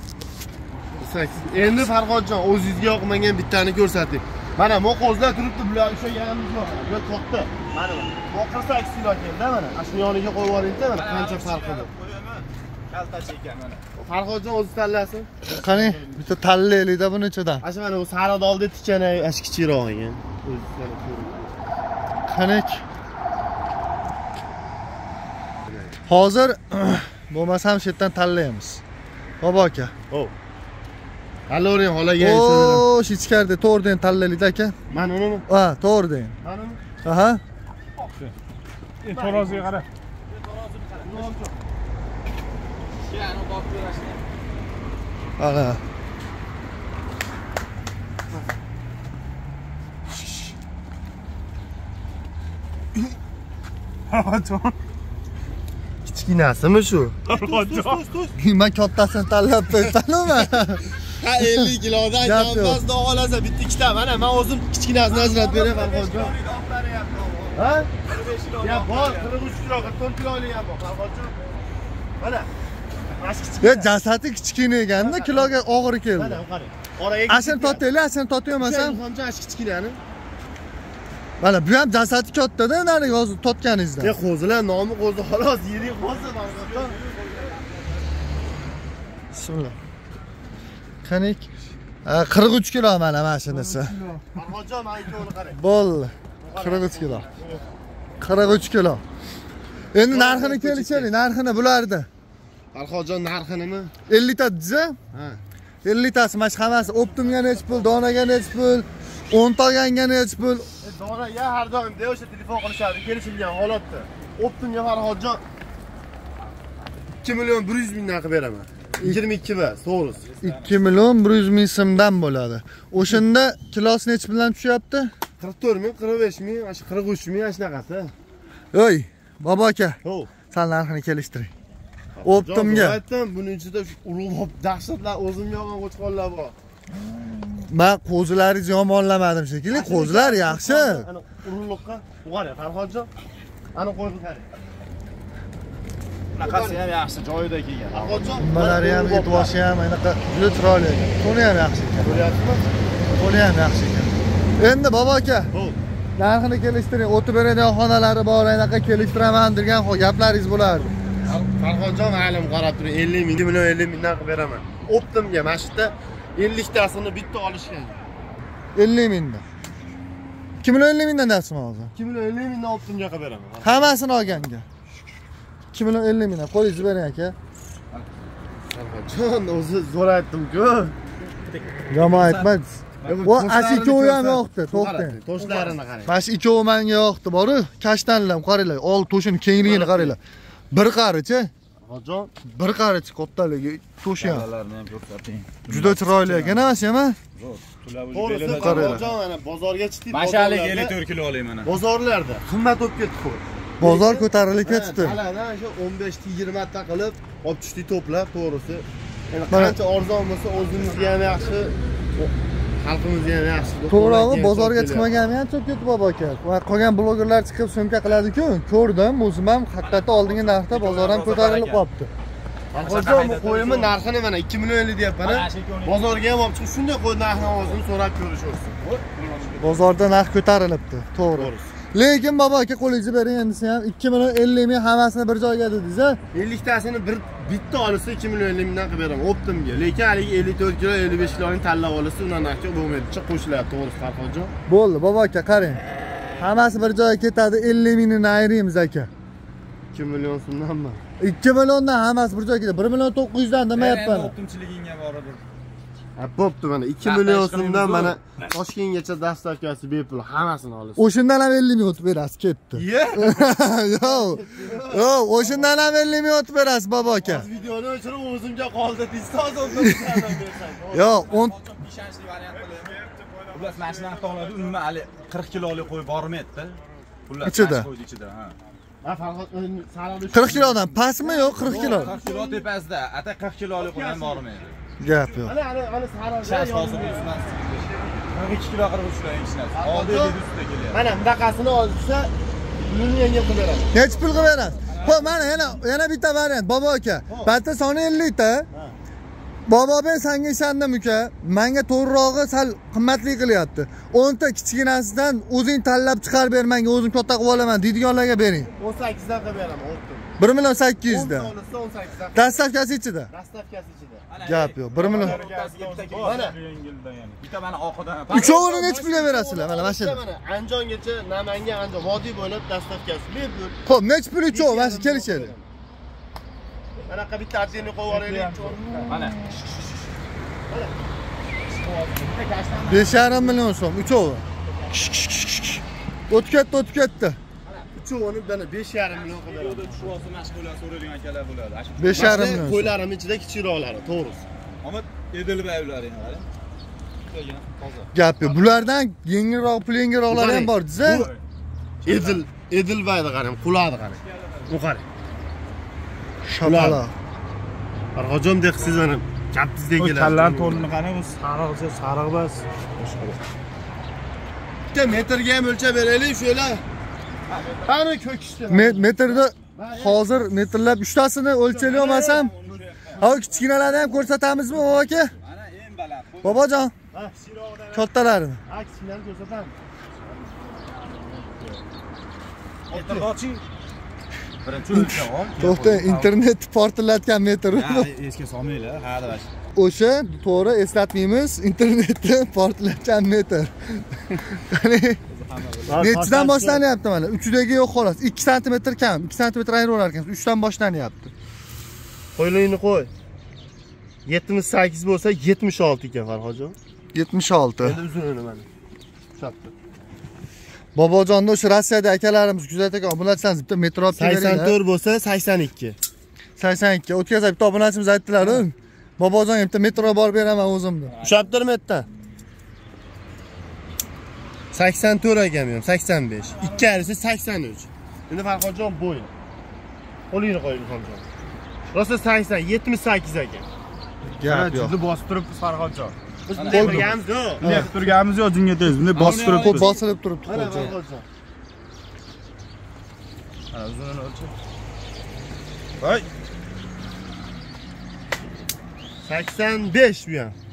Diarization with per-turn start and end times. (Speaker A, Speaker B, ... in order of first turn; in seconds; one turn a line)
Speaker A: 1.0-11.9
Speaker B: 10.9-13.8
Speaker A: 14.0-15.3
Speaker C: 15.4-17.6
Speaker B: 15.6-16.1
Speaker A: 17.6-21.5
Speaker C: 22.3-22.8
Speaker C: 26.1-28.8
Speaker C: 29.4-29.9
Speaker A: 31.5-32.8
Speaker C: 32.2-34.7
Speaker A: 34.9-35.5
Speaker C: 35.5-36.3
Speaker A: 36.4-36.8
Speaker C: 37.0-37.4
Speaker B: 38.0-38.3
Speaker D: 39.0-39.8
Speaker A: 39.1-39.7
Speaker B: 40.3-41.3
Speaker A: 41.0-41.5
Speaker B: 43.0-44.2
Speaker C: 45.4-45.8
Speaker D: 54.1-54.6
Speaker A: 56.0-58.3
Speaker B: 57.3-57.9
Speaker C: 58.4-62.8
Speaker A: 61.0-66.4
Speaker B: 65.1-69.8
Speaker A: 67.5-67.9
Speaker A: 68.6-71.3
Speaker A: 72.2-72.5
Speaker A: 73.2-74.0
Speaker C: 73.6-76.4
Speaker A: 74.9-75.5
Speaker A: 76.1-77.8
Speaker C: 77.3-79.0
Speaker A: 78.6-80.0
Speaker C: 81.4-84.2
Speaker A: 84.0-87.0
Speaker B: 86.1-88.0
Speaker C: 89.3-89.8
Speaker C: 91.0-91.5
Speaker C: 92.0-94.0
Speaker A: 94.2-95.6
Speaker C: 95.5-97.3
Speaker A: 96.4-97.6
Speaker C: 98.2-99.0
Speaker C: 99.9-102.1
Speaker A: 100.1-101.1
Speaker A: 102.7-103.9
Speaker C: 104.1-105.0
Speaker A: 105.1-105.4
Speaker C: 105.8-110.7
Speaker A: 107.3-107.9
Speaker A: 110.8-115.4
Speaker A: 117.2-120.2
Speaker B: 120.2-121.0
Speaker C: 120.4-125.1
Speaker A: 125.4-128.1
Speaker C: 128.7-130.0
Speaker A: 130.0-130.3
Speaker C: 130.5-131.5
Speaker A: 132.2-136.5
Speaker C: 132.2-133.0
Speaker C: 137.6-141.0
Speaker A: 139.7-143.1
Speaker A: 143.7-144.5
Speaker B: 146.3-148.4
Speaker A: 146.4-146.8
Speaker A: 147.9-149.6
Speaker C: 148.4-152.3
Speaker A: 152.0-152.6
Speaker C: 153.2-155.5
Speaker A: 155.5-155.8
Speaker C: 156.2-160.9
Speaker A: 161.2-168.0
Speaker C: 168.7-169.4
Speaker C: 170.6-171.9
Speaker A: 171.9-174.0
Speaker C: 173.6-174.6
Speaker C: 175.7-177.3
Speaker A: 178.7-180.9
Speaker B: 181.4-182.5
Speaker C: 181.9-190.2
Speaker A: 183.0-186.2
Speaker A: 189.6-190.2
Speaker C: 190.7-191.5
Speaker A: 191.8-192.3
Speaker C: 192.4-194.5
Speaker B: 194.2-196.7
Speaker C: 195.7-197.2
Speaker B: 197.3-199.1
Speaker A: 198.1-201.0
Speaker C: 198.5-199.1
Speaker B: 200.1-201.7
Speaker A: 201.6-215.1
Speaker C: 203.8-205.2
Speaker C: 209.5-209.8
Speaker C: 213.9-222.1
Speaker B: 219.8-221.8
Speaker A: 222.7-228.8
Speaker B: 222.8-223.9
Speaker B: 225.2-226.2
Speaker B: 227.3-227.8
Speaker B: 228.8-229.9
Speaker C: 229.6-236.2
Speaker A: 231.3-231.7
Speaker A: 236.3-244.5
Speaker C: 244.7-245.8
Speaker C: 246.4-249.1
Speaker A: 249.9-251.0
Speaker C: 251.2-254.3
Speaker B: 253.7-255.4
Speaker A: 256.1-261.0
Speaker B: 257.0-258.2
Speaker C: 261.0-267.5
Speaker A: 262.7-265.8
Speaker A: 267.2-271.2
Speaker C: 270.9-271.6
Speaker B: 270.9-278.6
Speaker C: 277.4-277.9
Speaker A: 279.0-282.6
Speaker C: 280.3-282.1
Speaker B: 281.6-284.8
Speaker A: 283.8-284.4
Speaker C: 285.0-285.5
Speaker A: 285.1-288.2
Speaker B: 286.4-291.0
Speaker A: 289.7-290.4
Speaker A: 290.9-294.0
Speaker C: 293.9-298.7
Speaker B: 294.9-295.8
Speaker A: 297.3-297.5
Speaker C: 299.6-308.7
Speaker A: 308.8-310.3
Speaker C: 310.4-311.5
Speaker A: 311.0-312.6
Speaker C: 312.3-313.3
Speaker A: 313.3-314.2
Speaker B: 314.3-318.5
Speaker C: 314.4-315.4
Speaker A: 315.0-316.6
Speaker D: 316.1-317.4
Speaker A: 318.3-323.8
Speaker C: 318.3-320.2
Speaker C: 323.9-325.5
Speaker A: 324.5-325.6
Speaker A: 327.1-329.0
Speaker D: 328.1-329.2
Speaker B: 329.1-329.4
Speaker A: 330.7-330.9
Speaker B: 331.8-333.3
Speaker C: 332.9-334.4
Speaker C: 336.3-337.4
Speaker A: 337.9-340.1
Speaker B: 339.1-342.6
Speaker C: 342.0-342.9
Speaker A: 342.1-344.4
Speaker B: 344.8-346.5
Speaker B: 347.2-348.9
Speaker C: 348.1-351.3
Speaker A: 350.3-351.3
Speaker B: 351.0-351.4
Speaker B: 352.0-352.4
Speaker A: 352.0-355.0
Speaker B: 354.2-354.7
Speaker C: 356.4-357.1
Speaker A: 356.6-357.0
Speaker A: 358.1-360.8
Speaker D: 360.0-363.4
Speaker B: 360.2-361.3
Speaker A: 364.9-366.8
Speaker B: 367.5-367.9
Speaker A: 367.8-370.2
Speaker C: 368.7-372.6
Speaker A: 371.7-372.5
Speaker B: 371.8-373.9
Speaker C: 373.2-375.3
Speaker B: 375.4-376.7
Speaker C: 376.4-376.9
Speaker B: 377.4-378.0
Speaker C: 377.9-378.6
Speaker A: 378.6-379.8
Speaker B: 380.2-380.9
Speaker B: 382.9-383.6
Speaker A: 382.9-383.3
Speaker B: 384.6-386.3
Speaker C: 385.6-388.1
Speaker B: 387.7-389.5
Speaker C: 389.7-395.2
Speaker B: 395.3-396.0
Speaker A: 395.9-396.8
Speaker C: 396.0-401.3
Speaker A: 402.3-403.1
Speaker A: 404.2-406.8
Speaker C: 407.1-408.0
Speaker A: 407.8-408.6
Speaker A: 409.4-409.7
Speaker C: 410.9-414.8
Speaker A: 414.1-416.0
Speaker C: 416.6-421.1
Speaker A: 418.4-418.6
Speaker B: 421.1-421.5
Speaker A: 421.2-422.1
Speaker A: 424.7-429.3
Speaker A: 430.3-431.2
Speaker A: 431.9-433.7
Speaker C: 434.3-435.0
Speaker A: 434.5-437.7
Speaker B: 436.5-437.2
Speaker D: 436.7-439.9
Speaker C: 437.6-438.0
Speaker B: 439.0-440.0
Speaker C: 439.3-440.9
Speaker A: 440.4-441.2
Speaker B: 443.7-444.5
Speaker B: 446.0-446.3
Speaker A: 449.2-450.6